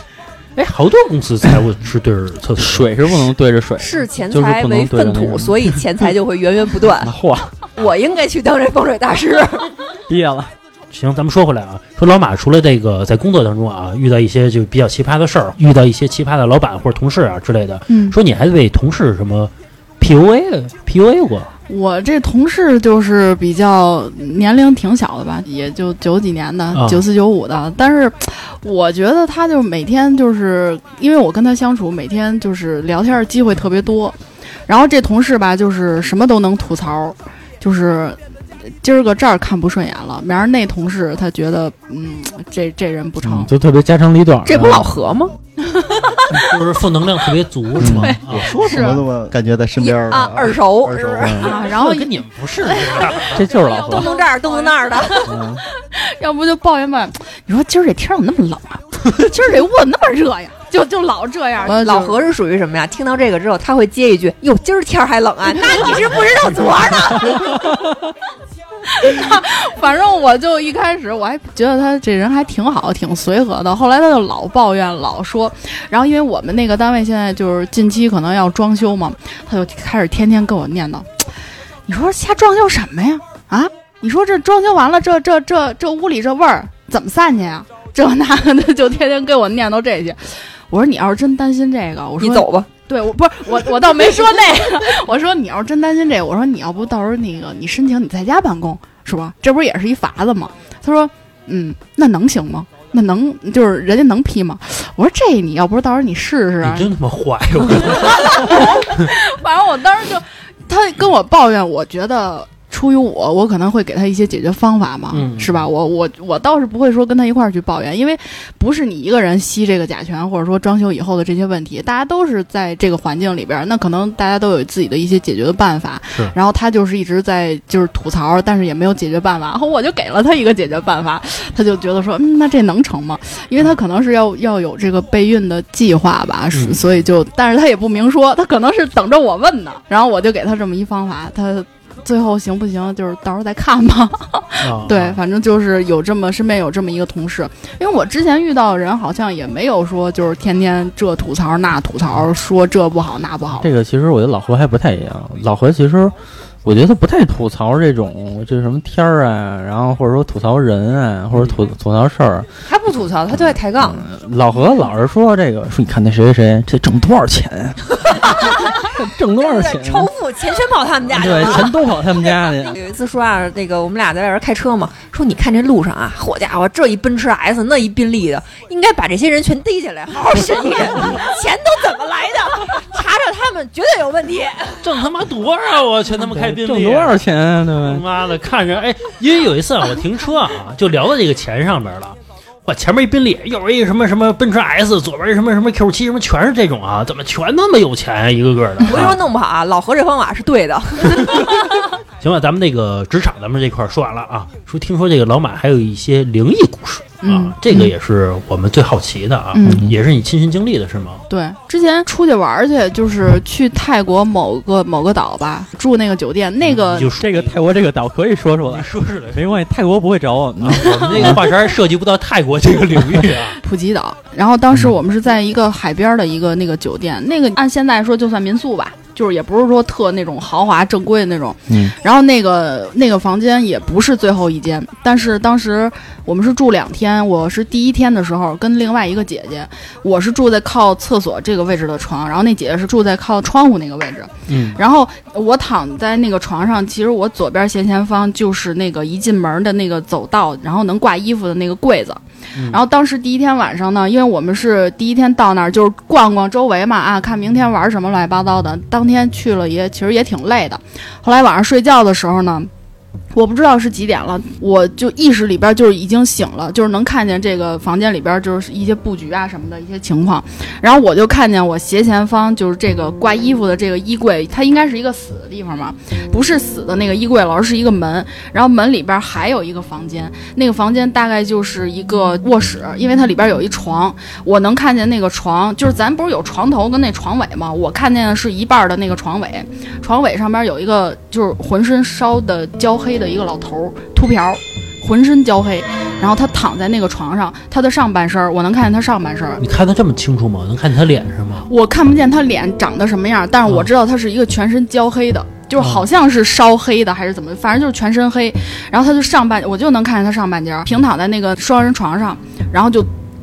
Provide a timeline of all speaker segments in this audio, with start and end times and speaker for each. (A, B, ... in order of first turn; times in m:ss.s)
0:00.5-0:03.3 A
0:02.6-0:05.8 B
0:03.8-0:07.1 C
0:06.9-0:07.5 B
0:07.7-0:09.7 C
0:10.1-0:10.5 B
0:10.9-0:21.5 A
0:17.9-0:18.2 D
0:21.7-0:34.2 D
0:26.7-0:27.0 A
0:34.7-0:38.2 D
0:38.7-0:43.5 D
0:43.2-0:44.9 B
0:44.4-0:45.3 C
0:45.6-0:46.3 D
0:46.3-0:48.7 A
0:47.8-0:48.2 B
0:47.8-0:49.0 D
0:48.3-0:51.4 E
0:49.8-0:51.5 C
0:51.2-0:51.5 B
0:51.4-1:02.2 D
0:51.4-0:53.5 A
0:53.3-0:54.1 B
0:53.5-0:55.3 C
0:55.2-0:55.6 B
1:01.6-1:07.6 C
1:05.5-1:06.3 D
1:07.2-1:07.6 D
1:08.9-1:21.3 D
1:21.9-1:46.9 D
1:32.2-1:32.7 C
1:46.6-1:49.1 A
1:47.9-2:33.7 D
1:55.1-1:55.7 A
2:16.5-2:16.8 A
2:24.6-2:25.2 A
2:33.6-2:42.5 B
2:42.6-2:44.0 C
2:43.8-2:50.1 B
2:48.0-3:04.8 C
2:51.1-2:52.8 B
3:04.8-3:07.2 A
3:06.1-3:08.0 B
3:07.8-3:19.2 A
3:18.8-3:21.7 C
3:21.1-3:21.5 A
3:22.2-3:31.2 A
3:27.2-3:27.9 D
3:29.5-3:29.9 D
3:29.6-3:29.9 B
3:31.3-3:37.1 D
3:36.6-3:37.6 A
3:37.2-3:41.4 B
3:38.6-3:39.5 A
3:40.6-3:43.6 A
3:43.6-4:22.7 D
3:51.7-3:51.9 B
4:04.5-4:04.8 A
4:12.5-4:12.8 A
4:23.3-4:59.6 D
4:59.6-5:01.7 A
5:01.7-5:13.1 D
5:05.8-5:06.0 A